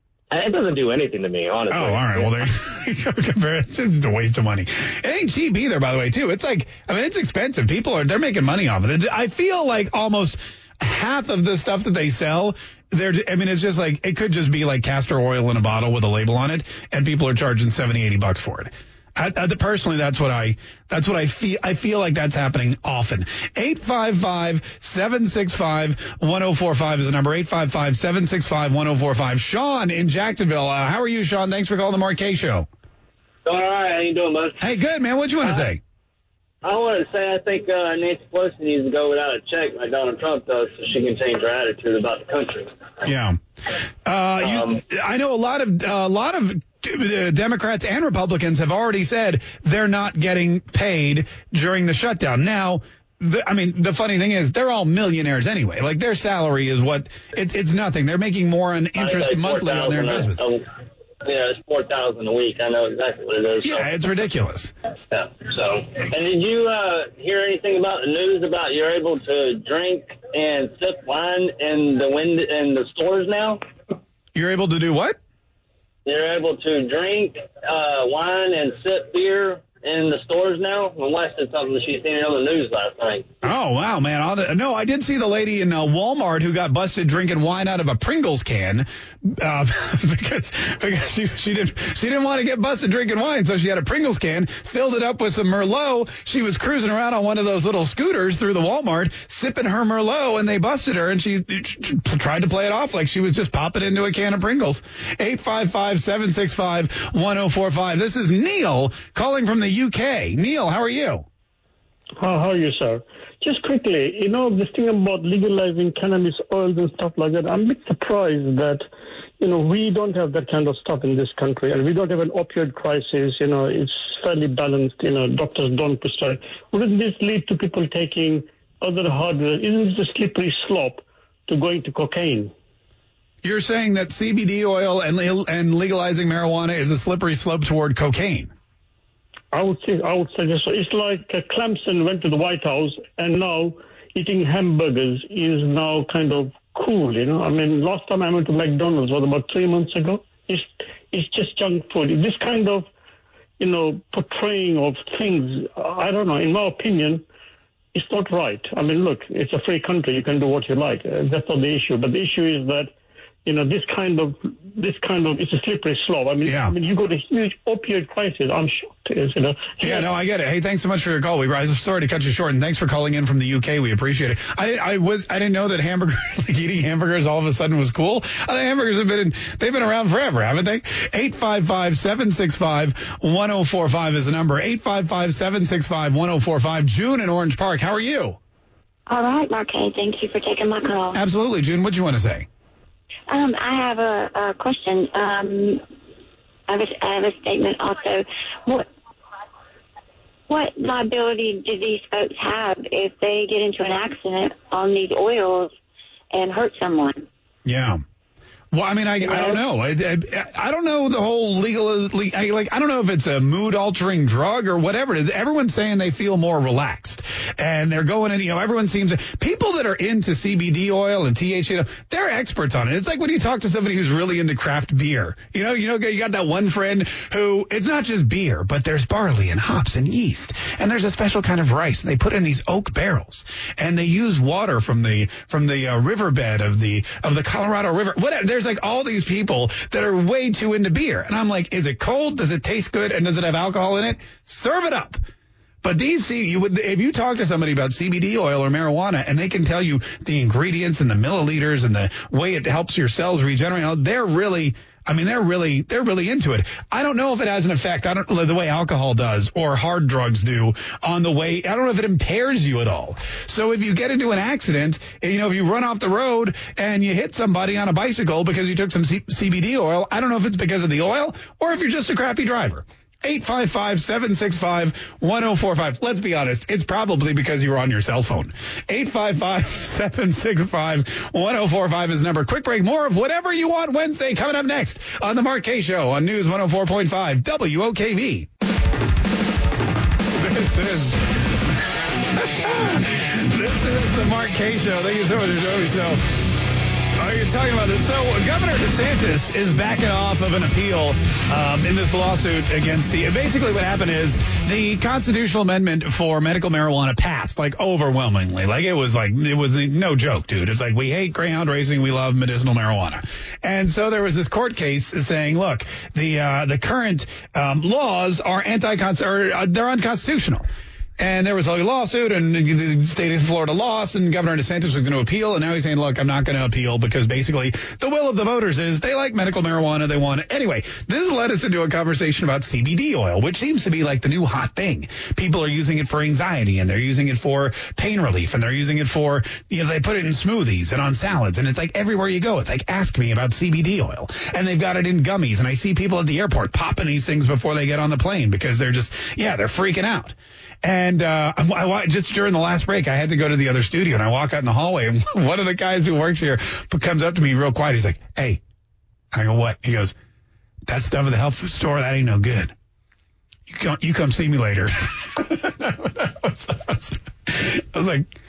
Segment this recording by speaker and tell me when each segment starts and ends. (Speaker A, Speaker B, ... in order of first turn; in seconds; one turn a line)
Speaker A: 0.3-2.5
Speaker B: 1.7-32.7
Speaker C: 33.6-34.5
Speaker B: 34.6-35.8
Speaker C: 36.6-42.6
Speaker B: 43.0-43.4
Speaker B: 44.0-60.4
Speaker C: 61.3-63.5
Speaker B: 63.6-64.7
Speaker C: 66.1-73.5
Speaker B: 74.3-75.2
Speaker C: 76.0-83.2
Speaker B: 83.4-111.2
Speaker D: 112.2-118.9
Speaker D: 119.4-132.5
Speaker B: 133.4-138.5
Speaker D: 139.5-152.9
Speaker D: 153.6-157.2
Speaker D: 157.9-162.9
Speaker D: 163.4-170.1
Speaker B: 166.4-166.7
Speaker B: 169.8-188.4
Speaker E: 189.1-191.2
Speaker B: 191.1-192.5
Speaker E: 193.3-195.8
Speaker E: 196.7-198.9
Speaker E: 200.5-205.7
Speaker E: 206.3-207.2
Speaker B: 207.6-208.0
Speaker B: 208.7-245.2
Speaker B: 245.8-288.5
Speaker B: 290.4-291.6
Speaker B: 292.3-296.2
Speaker B: 297.2-320.7
Speaker B: 321.2-358.6
Speaker B: 359.3-360.1
Speaker B: 360.9-362.7
Speaker B: 363.7-368.3